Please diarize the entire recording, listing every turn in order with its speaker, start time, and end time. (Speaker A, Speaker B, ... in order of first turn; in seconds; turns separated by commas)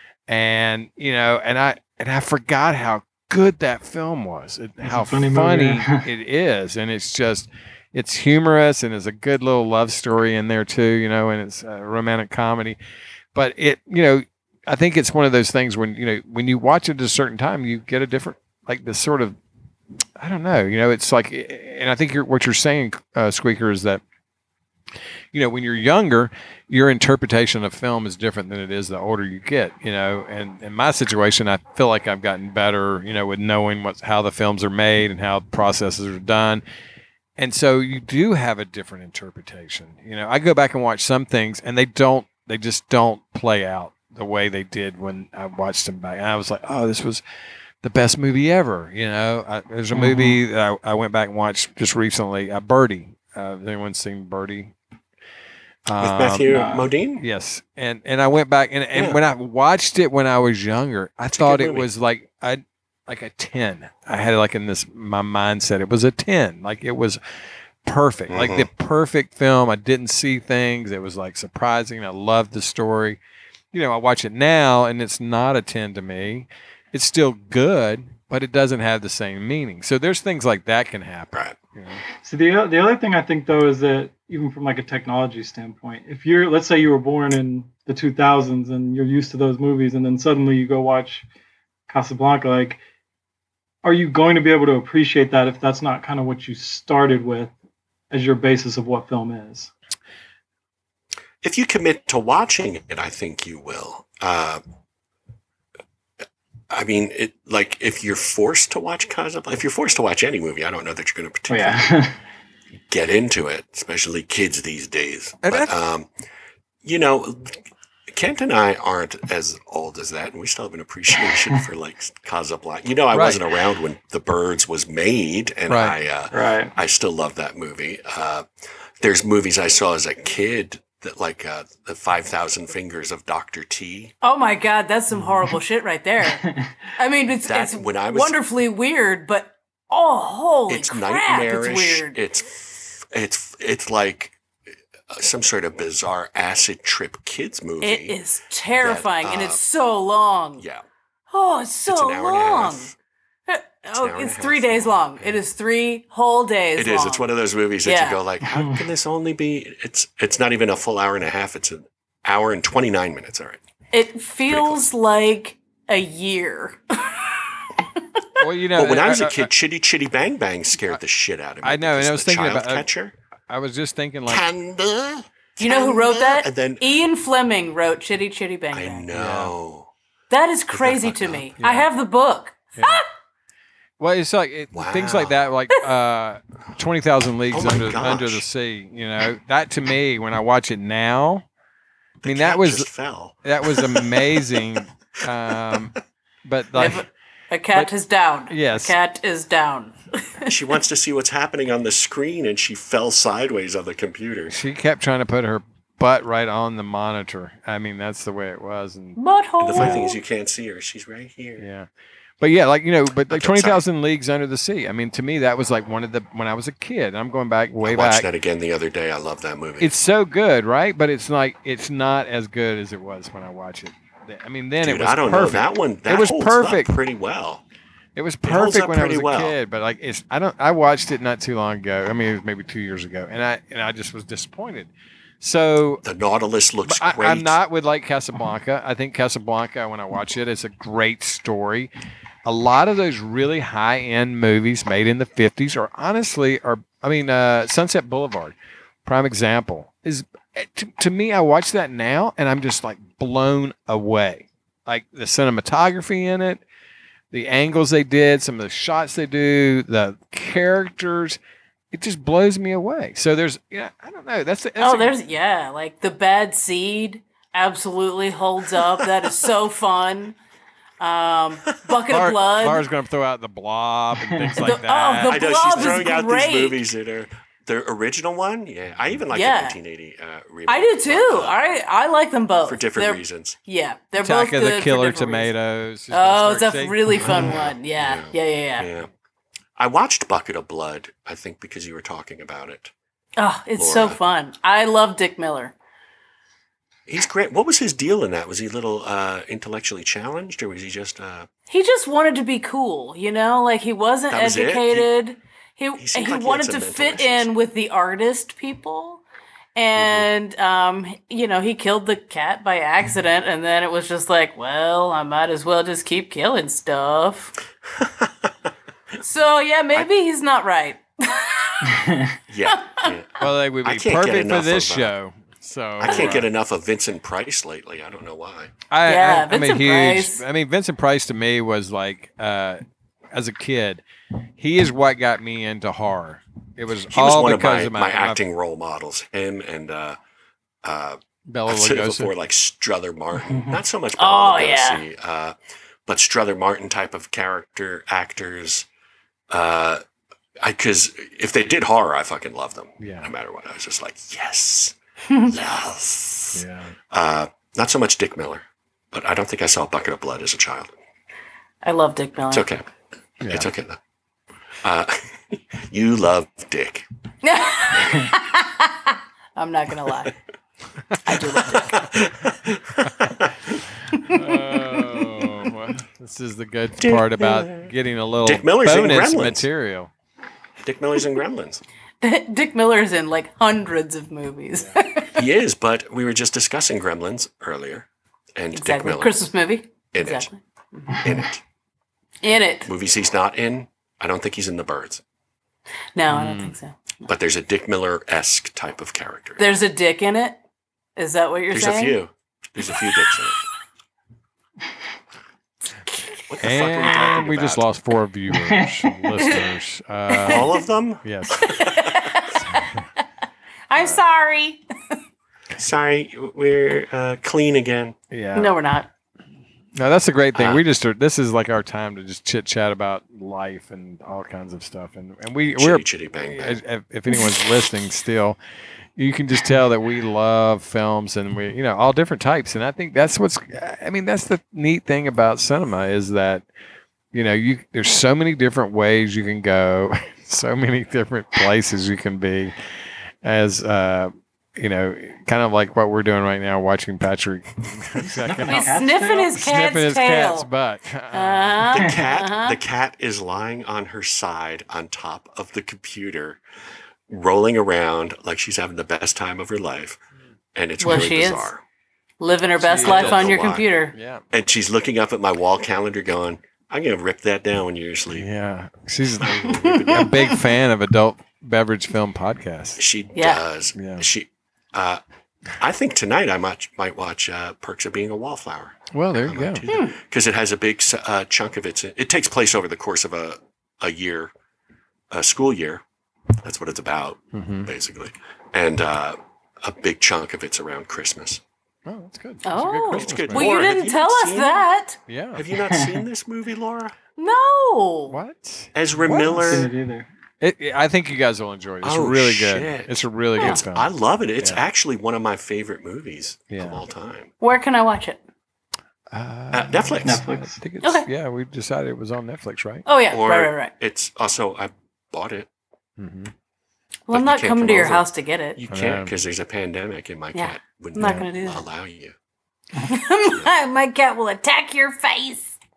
Speaker A: 0.3-12.8, Speaker B: 4.8-6.0, Speaker A: 13.3-19.4, Speaker A: 20.2-24.0, Speaker A: 25.3-36.6, Speaker A: 37.4-47.2, Speaker A: 47.8-54.7, Speaker B: 49.9-50.4, Speaker A: 55.9-56.6, Speaker C: 56.0-57.2, Speaker B: 56.5-56.9, Speaker A: 57.2-67.2, Speaker C: 58.9-59.2, Speaker C: 61.3-61.9, Speaker A: 67.8-73.2, Speaker C: 68.3-68.7, Speaker A: 73.7-82.0, Speaker B: 82.2-91.2, Speaker B: 91.9-92.8, Speaker B: 93.8-97.5, Speaker B: 98.1-99.7, Speaker C: 101.4-104.6, Speaker C: 106.7-111.8, Speaker B: 111.5-112.2, Speaker C: 112.9-116.1, Speaker A: 115.4-115.8, Speaker C: 116.8-128.4, Speaker A: 123.1-123.4, Speaker A: 125.7-126.0, Speaker B: 126.3-126.7, Speaker C: 129.0-134.1, Speaker D: 134.2-142.2, Speaker B: 136.3-136.7, Speaker C: 137.4-138.3, Speaker C: 140.7-144.4, Speaker C: 145.1-148.2, Speaker D: 147.8-150.6, Speaker C: 148.8-149.6, Speaker C: 150.6-150.8, Speaker D: 151.3-152.9, Speaker C: 151.9-152.9, Speaker D: 153.5-157.2, Speaker C: 153.9-155.4, Speaker C: 156.8-163.6, Speaker D: 157.8-158.2, Speaker B: 158.5-158.8, Speaker D: 163.9-168.2, Speaker C: 164.5-164.8, Speaker A: 168.4-169.5, Speaker C: 168.7-173.1, Speaker A: 171.6-172.9, Speaker A: 173.5-174.5, Speaker C: 174.3-176.8, Speaker D: 175.6-179.1, Speaker C: 178.7-179.9, Speaker A: 179.1-179.5, Speaker D: 180.3-183.0, Speaker C: 180.7-181.5, Speaker A: 181.6-181.9, Speaker A: 182.8-183.0, Speaker A: 184.0-191.4, Speaker C: 184.7-185.3, Speaker C: 187.5-188.4, Speaker C: 192.2-194.6, Speaker A: 192.2-192.9, Speaker A: 193.4-197.0, Speaker D: 196.7-200.6, Speaker A: 198.5-198.9, Speaker C: 200.4-204.5, Speaker A: 204.5-209.2, Speaker D: 209.2-210.2, Speaker C: 209.6-211.6, Speaker A: 209.7-210.0, Speaker A: 211.6-211.9, Speaker A: 212.4-218.3, Speaker C: 213.3-213.8, Speaker C: 217.8-219.9, Speaker A: 219.8-226.9, Speaker C: 224.8-227.6, Speaker A: 228.2-234.9, Speaker C: 228.4-229.6, Speaker A: 235.4-236.0, Speaker C: 236.0-237.6, Speaker A: 236.8-241.9, Speaker A: 242.4-256.6, Speaker A: 257.3-261.4, Speaker A: 261.9-265.1, Speaker D: 264.8-270.3, Speaker D: 271.0-272.8, Speaker A: 272.1-276.0, Speaker B: 274.2-274.6, Speaker D: 274.6-276.8, Speaker C: 275.2-281.6, Speaker D: 279.3-279.8, Speaker D: 280.7-285.5, Speaker C: 282.6-283.6, Speaker A: 284.2-287.2, Speaker D: 286.1-288.9, Speaker C: 287.2-289.1, Speaker C: 289.8-292.9, Speaker D: 293.4-295.7, Speaker C: 293.8-294.2, Speaker C: 297.1-301.5, Speaker D: 301.7-309.2, Speaker C: 304.3-305.1, Speaker C: 306.0-307.5, Speaker D: 309.8-317.5, Speaker C: 309.9-310.3, Speaker C: 318.0-318.5, Speaker D: 319.2-323.1, Speaker B: 321.8-322.3, Speaker C: 322.5-325.1, Speaker A: 323.4-326.5, Speaker C: 326.0-328.7, Speaker D: 326.1-326.3, Speaker A: 328.9-332.8, Speaker D: 329.0-330.4, Speaker A: 333.3-334.0, Speaker A: 334.6-338.4, Speaker C: 337.1-340.2, Speaker C: 340.8-348.9, Speaker A: 341.5-342.3, Speaker D: 344.2-345.0, Speaker C: 349.5-350.0, Speaker C: 350.6-360.9, Speaker A: 353.0-353.3, Speaker A: 356.5-356.9, Speaker D: 361.8-362.7, Speaker C: 362.5-362.8, Speaker A: 363.4-363.7, Speaker C: 363.4-364.0, Speaker C: 364.8-367.1, Speaker D: 367.4-370.3, Speaker C: 367.9-368.3, Speaker D: 371.2-372.1, Speaker C: 371.6-373.6, Speaker A: 374.3-380.1, Speaker C: 377.0-377.9, Speaker C: 378.4-379.7, Speaker C: 380.8-381.8, Speaker D: 382.2-385.4, Speaker C: 385.3-389.4, Speaker D: 388.7-391.2, Speaker C: 390.1-390.5, Speaker C: 391.2-391.6, Speaker D: 392.4-392.9, Speaker C: 392.8-395.2, Speaker D: 396.1-397.3, Speaker A: 396.3-396.7, Speaker C: 397.3-399.7, Speaker D: 399.6-400.6, Speaker D: 401.2-402.2, Speaker C: 401.7-403.6, Speaker C: 406.5-407.8, Speaker A: 406.6-410.7, Speaker B: 408.5-408.9, Speaker D: 409.4-409.7, Speaker D: 410.3-410.7, Speaker C: 410.4-412.4, Speaker A: 411.2-411.8, Speaker D: 411.6-412.9, Speaker A: 412.6-412.9, Speaker D: 413.9-415.2, Speaker C: 415.8-418.1, Speaker A: 418.3-418.7, Speaker D: 418.5-419.1, Speaker A: 419.9-428.6, Speaker C: 420.5-420.8, Speaker C: 425.7-426.8, Speaker A: 429.2-436.6, Speaker A: 437.3-442.7, Speaker A: 443.4-448.9, Speaker B: 448.2-449.5, Speaker D: 448.7-450.7, Speaker A: 449.5-451.9, Speaker D: 451.3-452.8, Speaker C: 451.8-456.6, Speaker C: 457.3-460.2, Speaker C: 460.7-461.8, Speaker D: 461.0-461.7, Speaker D: 462.4-464.1, Speaker A: 462.8-463.6, Speaker C: 463.0-463.9, Speaker A: 464.1-464.4, Speaker C: 464.5-468.5, Speaker A: 468.3-473.0, Speaker C: 469.4-470.6, Speaker D: 469.7-470.6, Speaker C: 473.0-475.2, Speaker D: 473.4-473.6, Speaker A: 473.9-474.2, Speaker C: 475.8-484.5, Speaker A: 479.1-479.8, Speaker D: 479.9-480.1, Speaker C: 485.3-486.0, Speaker C: 486.6-491.6, Speaker A: 487.5-487.9, Speaker A: 492.1-493.7, Speaker D: 492.6-495.2, Speaker C: 493.1-494.9, Speaker A: 495.3-495.6, Speaker C: 495.5-497.1, Speaker D: 497.4-498.4, Speaker A: 498.3-499.9, Speaker C: 498.9-499.9, Speaker B: 499.3-500.3, Speaker A: 500.6-504.1, Speaker C: 502.0-507.5, Speaker A: 506.7-507.0, Speaker D: 507.6-508.4, Speaker A: 509.3-513.0, Speaker C: 509.7-510.4, Speaker B: 510.2-510.8, Speaker D: 511.0-511.3, Speaker D: 513.0-513.9, Speaker C: 513.3-515.7, Speaker A: 516.2-516.5, Speaker D: 517.3-518.8, Speaker C: 517.3-522.4, Speaker A: 518.9-519.3, Speaker D: 520.5-521.8, Speaker A: 521.2-521.4, Speaker D: 523.0-525.7, Speaker C: 523.4-523.7